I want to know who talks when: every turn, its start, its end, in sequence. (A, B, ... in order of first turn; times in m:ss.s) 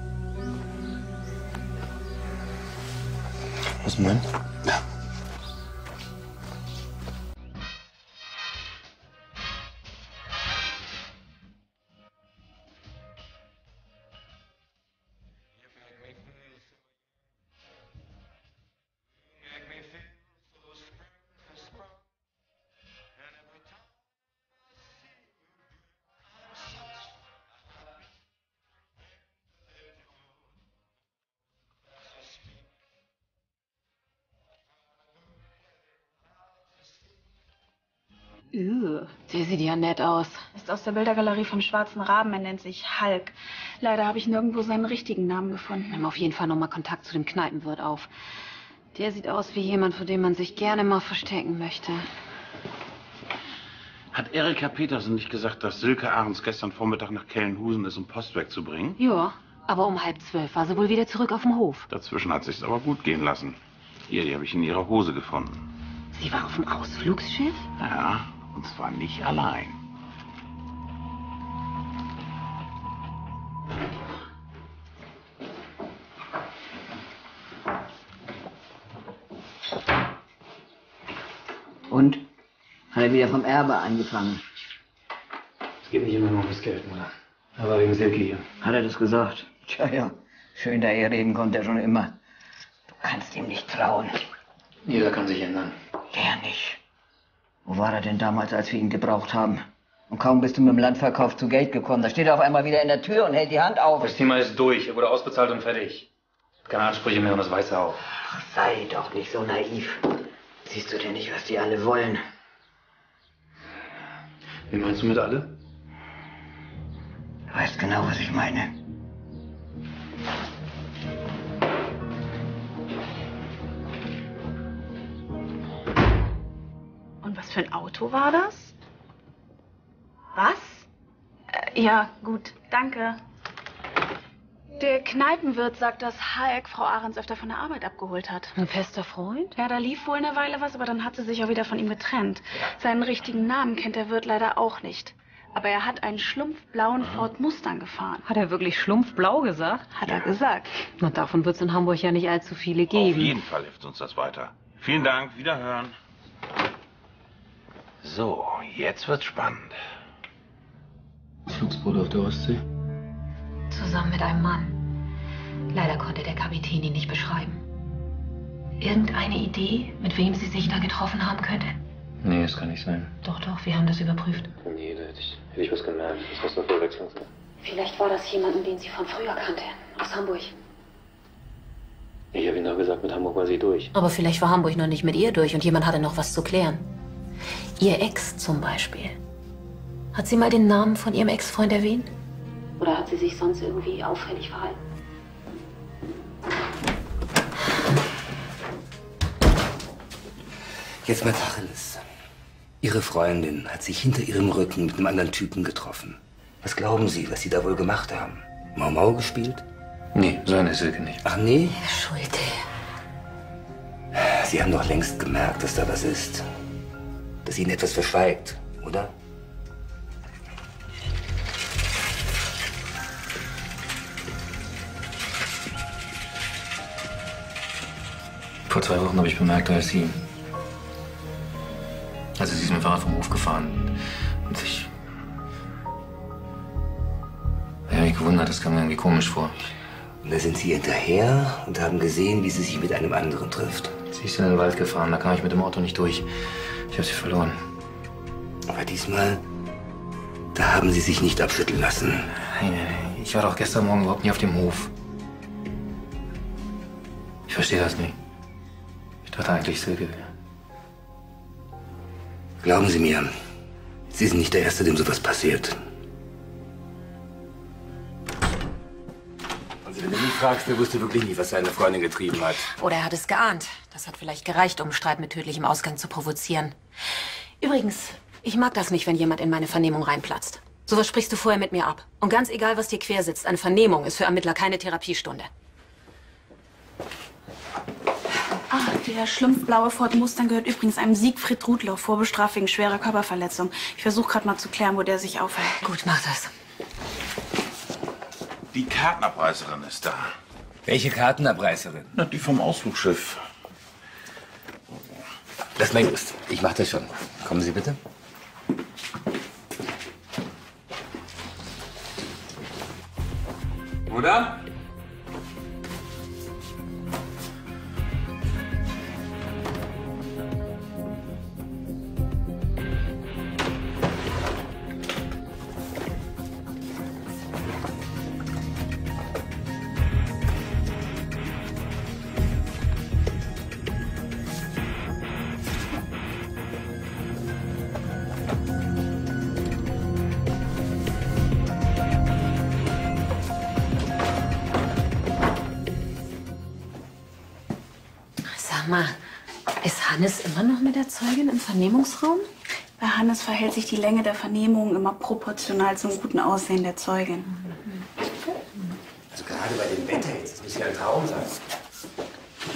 0:03.8-0:04.2 A
0:38.5-0:40.4 B
0:40.5-0:46.0 C
0:45.9-0:48.1 B
0:48.9-0:52.1 B
0:54.1-0:59.0 D
0:59.0-1:01.9 B
1:01.9-1:05.6 D
1:06.2-1:07.7 B
1:07.8-1:09.8 D
1:21.9-1:22.3 E
1:22.9-1:24.4 E
1:25.8-1:28.5 A
1:28.6-1:32.2 E
1:33.0-1:34.2 E
1:34.8-1:35.7 A
1:36.1-1:36.8 E
1:37.6-1:44.2 E
1:44.0-1:46.1 A
1:46.7-1:48.0 A
1:48.2-1:50.1 E
1:50.6-1:52.2 E
1:54.7-1:55.5 A
1:57.5-1:58.7 E
2:07.2-2:08.7 C
2:10.3-2:10.9 C
2:11.5-2:13.2 C
2:14.8-2:18.5 C
2:18.5-2:19.5 B
2:19.6-2:28.2 C
2:28.2-2:29.8 B
2:29.9-2:30.7 C
2:31.0-2:33.4 B
2:32.9-2:35.9 D
2:38.0-2:39.8 D
2:41.5-2:42.6 A
2:43.7-2:44.8 B
2:45.7-2:47.6 B
2:48.8-2:51.8 B
2:52.2-2:53.1 A
2:53.2-2:54.5 B
2:54.7-2:55.0 A
2:55.5-2:56.3 A
2:57.6-3:00.5 B
3:02.3-3:03.9 A
3:03.9-3:06.8 B
3:07.8-3:09.2 B
3:10.1-3:12.1 B
3:12.8-3:14.8 B
3:21.0-3:22.0 F
3:22.8-3:29.6 F
3:30.1-3:31.2 A
3:31.2-3:31.8 F
3:31.7-3:32.6 B
3:34.1-3:36.4 F
3:37.4-3:39.1 F
3:48.7-3:50.2 A
3:52.4-3:53.9 A
3:54.5-3:54.9 A
3:57.9-3:59.6 A
4:00.2-4:03.9 F
4:04.1-4:06.2 A
4:06.9-4:07.6 A
4:08.7-4:09.4 F
4:10.5-4:12.3 F
4:12.4-4:14.9 A
4:17.5-4:18.2 A
4:19.2-4:20.3 A
4:22.6-4:23.3 F
4:24.1-4:25.8 F
4:29.8-4:32.7 F
4:32.7-4:36.8 B
4:37.6-4:45.5 B
4:48.7-4:55.8 C
4:55.8-4:56.5 B
4:58.7-5:00.3 D
5:00.8-5:02.1 F
5:02.1-5:03.4 D
5:05.8-5:08.0 F
5:48.4-5:49.2 B
5:49.8-5:52.5 B
5:53.0-5:57.7 C
5:59.3-6:01.6 F